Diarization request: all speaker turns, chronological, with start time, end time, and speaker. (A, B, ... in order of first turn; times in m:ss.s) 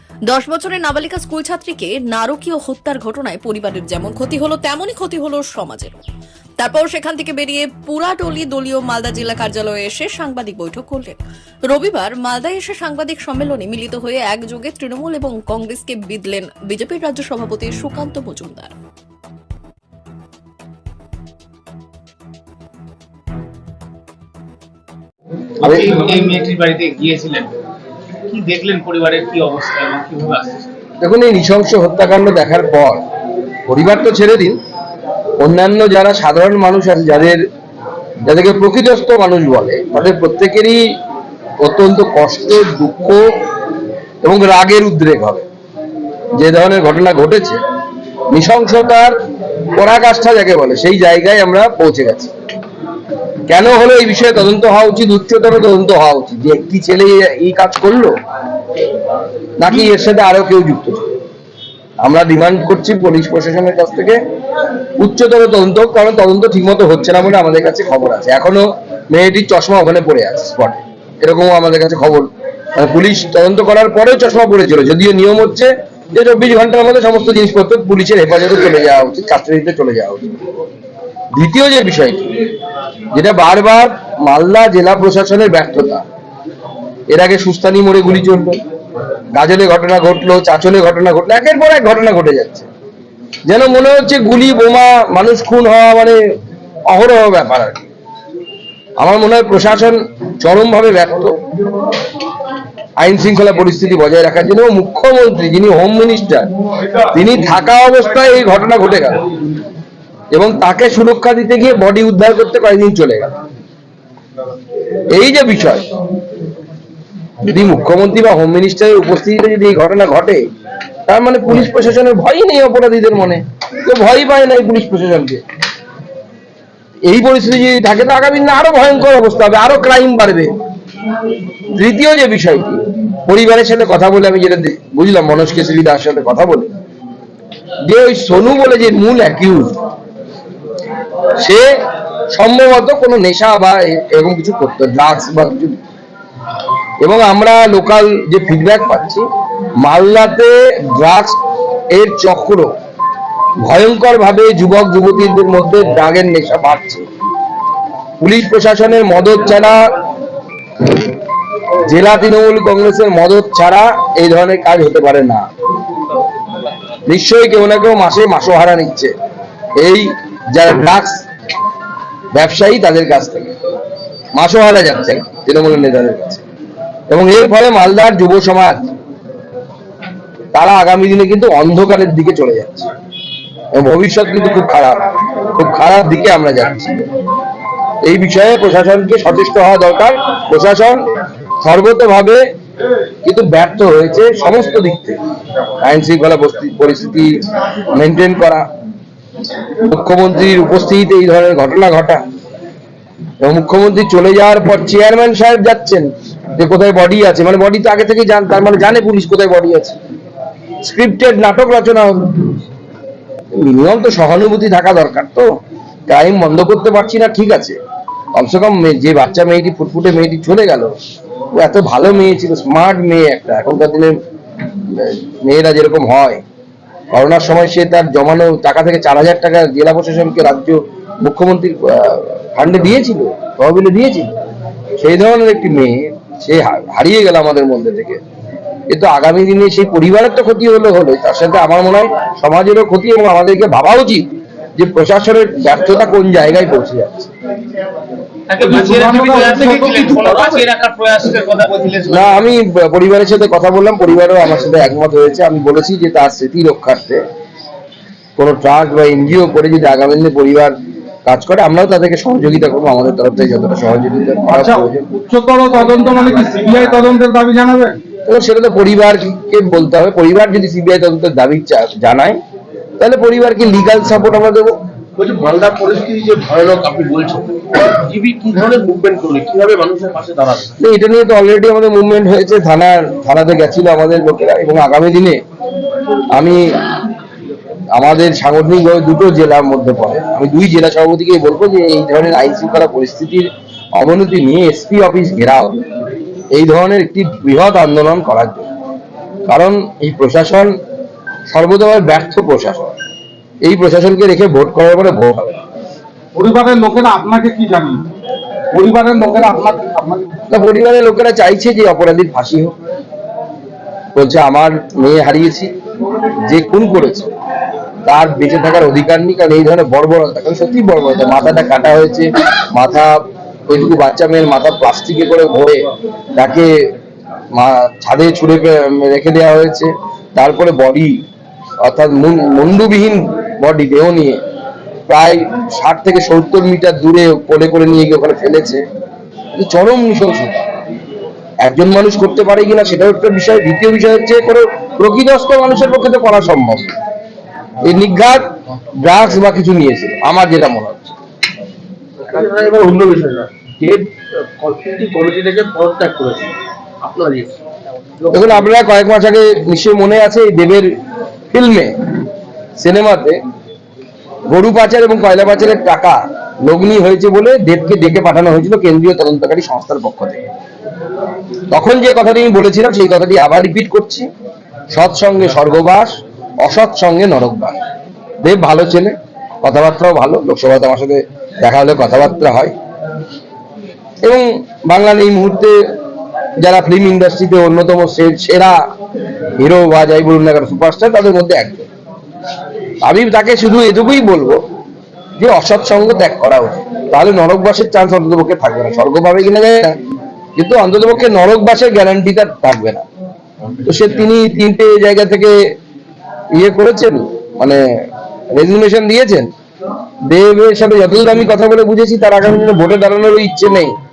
0:00.3-0:06.0 A
0:06.6-0:11.2 A
0:11.7-0:18.7 A
0:25.6-0:25.9 B
0:25.6-0:27.5 C
0:28.3-0:30.6 C
0:31.0-0:33.0 B
0:33.7-0:34.6 B
0:35.4-0:37.4 B
0:38.3-0:40.8 B
0:41.6-0:43.2 B
0:44.2-0:45.4 B
0:46.4-0:47.6 B
0:48.3-0:49.1 B
0:49.8-0:52.3 B
0:53.5-0:58.1 B
0:59.6-1:01.2 B
1:02.0-1:04.2 B
1:05.0-1:20.4 B
1:21.3-1:22.3 B
1:23.1-1:26.0 B
1:27.1-1:28.6 B
1:29.3-1:32.7 B
1:33.5-1:36.2 B
1:36.9-1:37.8 B
1:39.0-1:41.4 B
1:43.0-1:46.5 B
1:47.1-1:49.2 B
1:50.3-1:53.3 B
1:55.1-1:55.8 B
1:57.4-2:00.4 B
2:01.1-2:05.4 B
2:07.1-2:10.5 B
2:11.7-2:16.7 B
2:17.8-2:19.8 B
2:22.3-2:25.8 B
2:27.0-2:29.2 B
2:29.8-2:31.4 B
2:31.9-2:32.7 B
2:33.6-2:37.1 B
2:38.2-2:39.8 B
2:41.8-2:45.4 B
2:47.1-2:49.1 B
2:49.8-2:51.2 B
2:52.3-2:53.5 B
2:54.4-2:56.4 B
2:57.1-2:58.9 B
3:00.5-3:02.9 B
3:03.7-3:05.0 B
3:05.6-3:07.0 B
3:08.0-3:11.0 B
3:11.6-3:12.4 B
3:13.2-3:15.2 B
3:15.8-3:17.3 B
3:17.9-3:18.6 B
3:19.8-3:22.2 B
3:23.4-3:30.0 B
3:30.8-3:32.5 B
3:33.6-3:35.5 B
3:36.1-3:37.8 B
3:38.4-3:40.9 B
3:41.5-3:44.2 B
3:44.9-3:46.4 B
3:47.1-3:54.3 B
3:55.0-3:58.2 B
3:58.9-4:07.3 B
4:08.5-4:12.4 C
4:08.6-4:10.7 D
4:12.1-4:17.2 B
4:18.4-4:20.7 B
4:21.3-4:25.1 B
4:24.5-4:28.0 D
4:28.3-4:32.4 B
4:33.0-4:34.7 B
4:35.2-4:40.7 E
4:40.8-4:45.4 B
4:46.3-4:46.6 B
4:48.0-4:55.8 B
4:56.5-4:58.7 B
4:59.5-5:00.7 B
5:01.5-5:03.0 B
5:03.6-5:05.6 B
5:06.4-5:08.0 D
5:08.7-5:10.3 D
5:10.5-5:12.7 B
5:14.2-5:15.7 B
5:16.5-5:17.3 B
5:18.1-5:23.2 B
5:23.7-5:26.7 B
5:27.5-5:31.2 B
5:31.8-5:34.4 B
5:35.1-5:38.8 B
5:39.6-5:40.6 B
5:41.6-5:46.9 B
5:47.8-5:48.5 B
5:49.0-5:51.2 B
5:52.2-5:57.5 E
5:58.2-5:58.5 E
5:58.3-6:00.9 B
6:01.5-6:01.9 B
6:02.8-6:03.4 B
6:04.5-6:10.4 B
6:11.7-6:14.3 B
6:14.9-6:17.8 B
6:18.4-6:22.7 B
6:24.2-6:25.8 B
6:26.6-6:28.8 B
6:29.6-6:31.9 B
6:33.0-6:34.6 B
6:35.4-6:40.0 B
6:40.6-6:43.0 B
6:43.8-6:45.5 B
6:46.6-6:47.8 B
6:48.6-6:49.5 B
6:50.3-6:53.9 B